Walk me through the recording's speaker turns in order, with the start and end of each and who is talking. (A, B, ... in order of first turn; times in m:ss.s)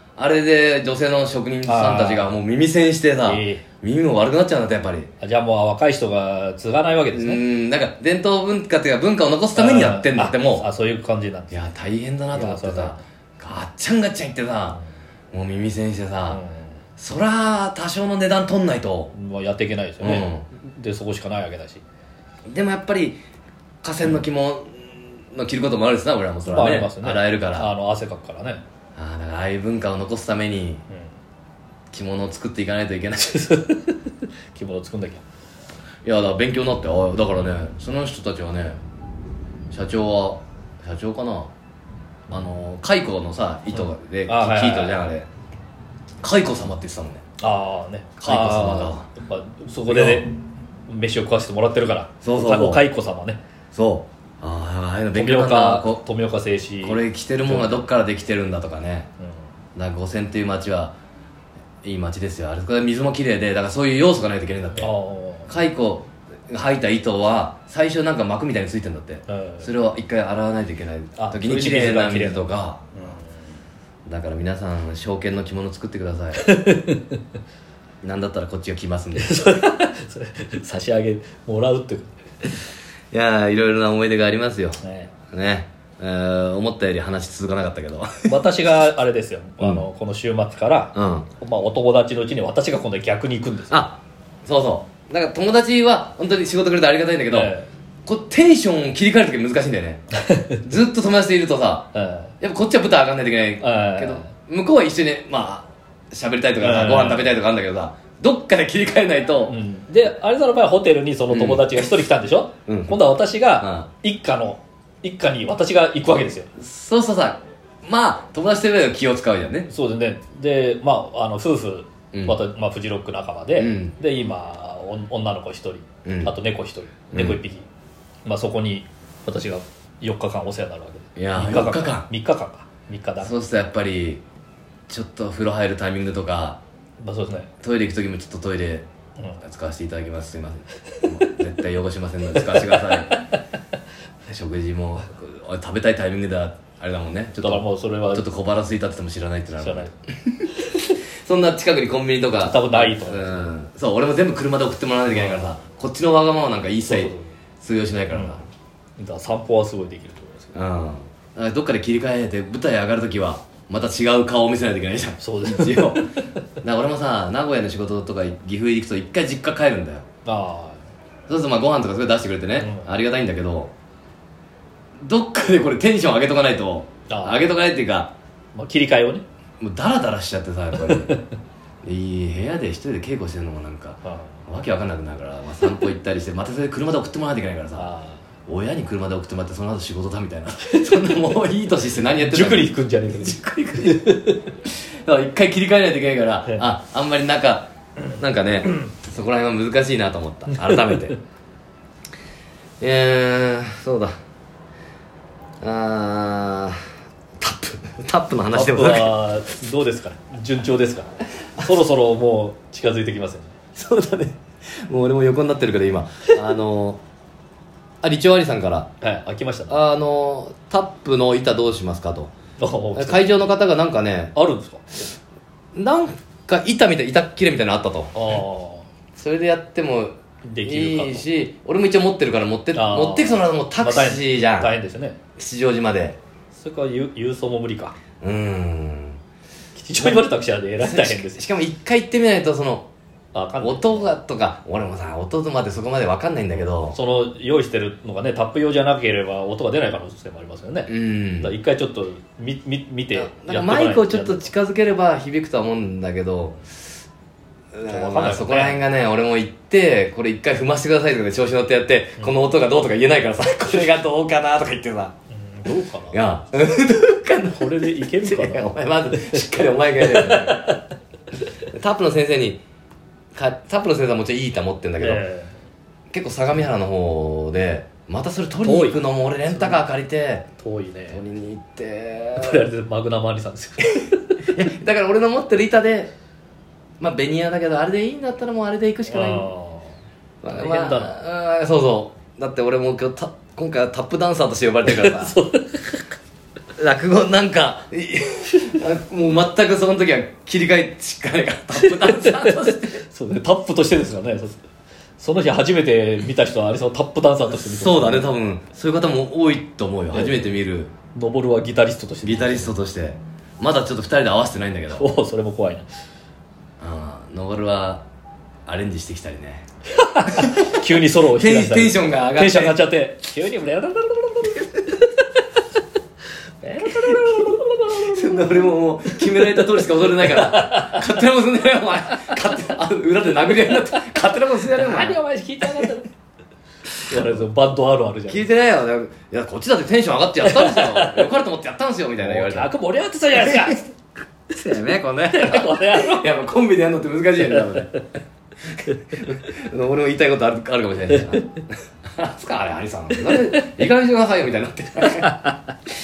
0:00.2-0:05.1 A
0:01.6-0:02.3 B
0:03.3-0:03.6 B
0:05.2-0:07.4 B
0:07.1-0:10.7 A
0:09.5-0:11.6 B
0:11.5-0:14.8 A
0:12.3-0:13.0 B
0:15.3-0:16.4 A
0:16.3-0:16.6 B
0:17.0-0:19.1 A
0:19.1-0:21.8 B
0:20.0-0:20.4 A
0:22.5-0:23.2 A
0:23.8-0:27.7 A
0:26.4-0:28.6 B
0:29.0-0:30.8 A
0:31.9-0:33.4 A
0:33.3-0:35.2 B
0:36.0-0:38.8 A
0:39.7-0:41.5 A
0:42.3-0:45.3 A
0:44.3-0:45.0 B
0:46.2-0:47.2 A
0:47.4-0:50.4 B
0:48.2-0:49.1 A
0:49.9-0:50.3 A
0:50.9-0:53.4 B
0:52.2-0:52.8 A
0:53.7-0:56.0 A
0:55.1-0:57.8 B
0:56.8-0:59.1 A
0:59.8-1:00.9 A
1:01.8-1:04.9 A
1:04.8-1:05.5 B
1:05.5-1:12.8 A
1:09.3-1:09.7 B
1:11.2-1:13.2 B
1:14.1-1:16.4 A
1:16.4-1:17.2 B
1:18.0-1:19.5 A
1:19.2-1:22.5 B
1:23.1-1:24.8 A
1:24.8-1:25.1 B
1:25.3-1:28.4 A
1:28.2-1:33.8 B
1:30.9-1:31.3 A
1:33.7-1:37.5 A
1:37.3-1:37.7 B
1:38.0-1:40.0 A
1:40.2-1:40.6 B
1:40.6-1:41.9 A
1:41.9-1:42.3 B
1:42.4-1:49.6 A
1:43.6-1:44.3 B
1:46.6-1:47.3 B
1:49.5-1:56.5 B
1:51.3-1:51.7 A
1:52.7-1:53.0 A
1:53.6-1:53.9 A
1:56.6-1:59.7 A
1:59.7-2:07.6 B
2:02.1-2:02.4 A
2:03.6-2:03.9 A
2:06.0-2:06.3 A
2:07.1-2:07.4 A
2:08.2-2:13.3 B
2:11.2-2:12.1 A
2:13.2-2:14.2 A
2:14.9-2:16.6 A
2:17.0-2:17.5 B
2:17.6-2:18.8 A
2:19.4-2:23.1 A
2:22.3-2:22.8 B
2:24.3-2:29.9 A
2:27.4-2:28.2 B
2:29.6-2:29.9 B
2:31.2-2:38.4 A
2:32.4-2:33.4 B
2:35.1-2:35.5 B
2:36.8-2:37.3 B
2:38.1-2:38.4 B
2:39.0-2:40.5 B
2:40.5-2:46.0 A
2:45.2-2:46.2 B
2:46.6-2:50.0 A
2:50.2-2:50.8 B
2:51.3-2:53.7 A
2:52.6-2:52.9 B
2:55.0-2:58.1 A
2:57.1-2:57.5 B
2:58.6-2:59.2 B
2:59.6-3:01.2 A
3:00.8-3:01.2 B
3:01.8-3:07.9 A
3:04.0-3:04.4 B
3:07.8-3:08.2 B
3:08.5-3:14.0 A
3:10.7-3:11.1 B
3:12.2-3:14.5 B
3:14.6-3:21.2 A
3:20.6-3:21.0 B
3:22.8-3:24.1 A
3:25.6-3:26.8 A
3:27.4-3:29.2 A
3:28.5-3:33.5 B
3:33.7-3:37.0 A
3:38.0-3:38.9 A
3:39.0-3:39.8 B
3:39.7-3:42.3 A
3:42.6-3:43.2 B
3:42.9-3:44.3 A
3:44.3-3:44.8 B
3:45.7-3:48.1 A
3:48.1-3:48.9 B
3:49.1-3:54.7 A
3:50.5-3:51.2 B
3:52.7-3:55.2 B
3:55.4-3:56.2 A
3:56.6-3:58.0 B
3:58.2-3:59.2 A
3:59.8-4:01.4 B
4:00.0-4:02.9 A
4:03.3-4:04.1 B
4:03.6-4:07.0 A
4:06.9-4:14.4 B
4:10.9-4:11.6 A
4:13.1-4:16.6 A
4:17.7-4:25.1 A
4:17.9-4:18.8 B
4:25.3-4:26.2 B
4:26.1-4:30.8 A
4:27.5-4:29.4 B
4:30.0-4:30.8 B
4:31.7-4:32.6 A
4:33.3-4:35.2 A
4:35.0-4:35.6 B
4:36.1-4:40.4 A
4:38.6-4:39.8 B
4:40.6-4:41.2 B
4:41.1-4:42.7 A
4:42.4-4:44.5 B
4:44.5-4:46.1 A
4:47.0-4:49.5 A
4:49.1-4:50.0 B
4:50.4-4:55.4 A
4:50.5-4:51.2 B
4:54.8-4:56.0 B
4:56.8-5:03.0 A
5:01.8-5:04.6 B
5:05.2-5:08.3 B
5:07.5-5:10.9 A
5:10.1-5:10.4 B
5:11.1-5:12.7 B
5:12.2-5:15.2 A
5:14.9-5:15.9 B
5:16.8-5:18.0 A
5:18.6-5:19.6 A
5:20.0-5:25.0 B
5:20.4-5:22.9 A
5:26.6-5:29.6 B
5:28.0-5:35.2 A
5:30.2-5:31.1 B
5:33.6-5:36.1 B
5:37.0-5:38.5 B
5:37.1-5:37.4 A
5:38.3-5:42.7 A
5:40.4-5:41.3 B
5:42.2-5:43.9 B
5:43.4-5:43.7 A
5:44.5-5:48.0 A
5:45.3-5:46.3 B
5:48.9-5:51.6 A
5:52.2-5:55.3 A
5:55.1-5:55.4 B